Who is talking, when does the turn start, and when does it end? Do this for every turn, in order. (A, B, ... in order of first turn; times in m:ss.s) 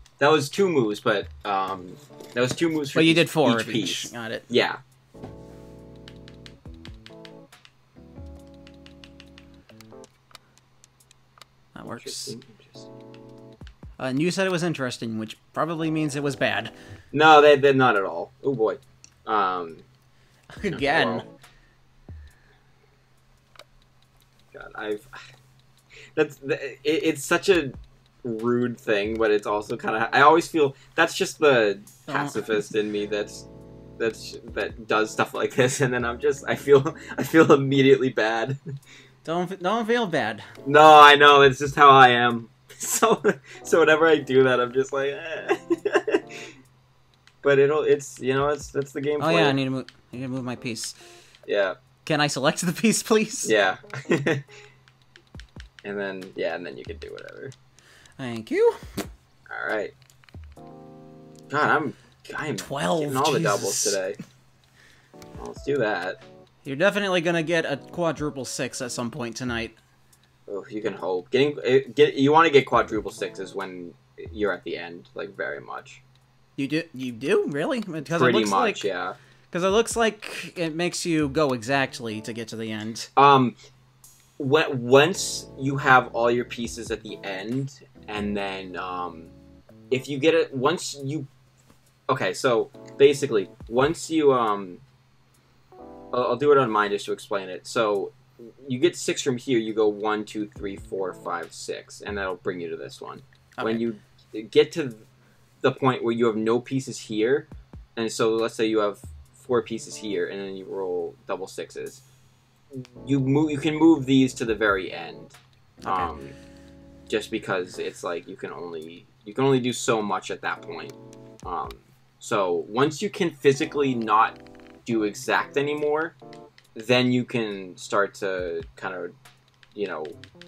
0:00.2-0:04.8 A
0:03.0-0:04.5 B
0:11.8-0:12.4 B
0:11.9-0:12.9 A
0:14.0-0:16.7 B
0:17.1-0:19.8 A
0:20.6-0:21.2 B
0:20.7-0:21.2 A
0:24.5-0:25.2 A
0:26.1-0:33.5 A
0:32.1-0:32.5 B
0:34.0-0:38.6 A
0:39.2-0:40.4 B
0:40.6-0:46.5 A
0:47.4-0:49.6 A
0:49.2-0:51.0 B
0:51.5-0:51.8 A
0:52.0-0:53.5 B
0:53.4-0:54.5 A
0:55.8-0:57.5 A
0:58.2-0:58.8 B
0:59.5-0:59.9 A
1:01.5-1:04.2 A
1:02.6-1:04.0 B
1:05.4-1:06.2 A
1:06.6-1:09.8 B
1:10.5-1:16.0 A
1:16.6-1:18.9 B
1:18.1-1:19.2 A
1:19.5-1:23.1 B
1:23.2-1:23.6 A
1:24.4-1:29.3 A
1:29.9-1:31.3 A
1:32.1-1:34.8 A
1:36.1-1:45.0 A
1:45.6-1:52.0 A
1:52.7-1:56.4 A
1:55.8-1:56.1 B
1:57.1-2:06.2 A
2:06.8-2:09.1 A
2:09.7-2:10.2 A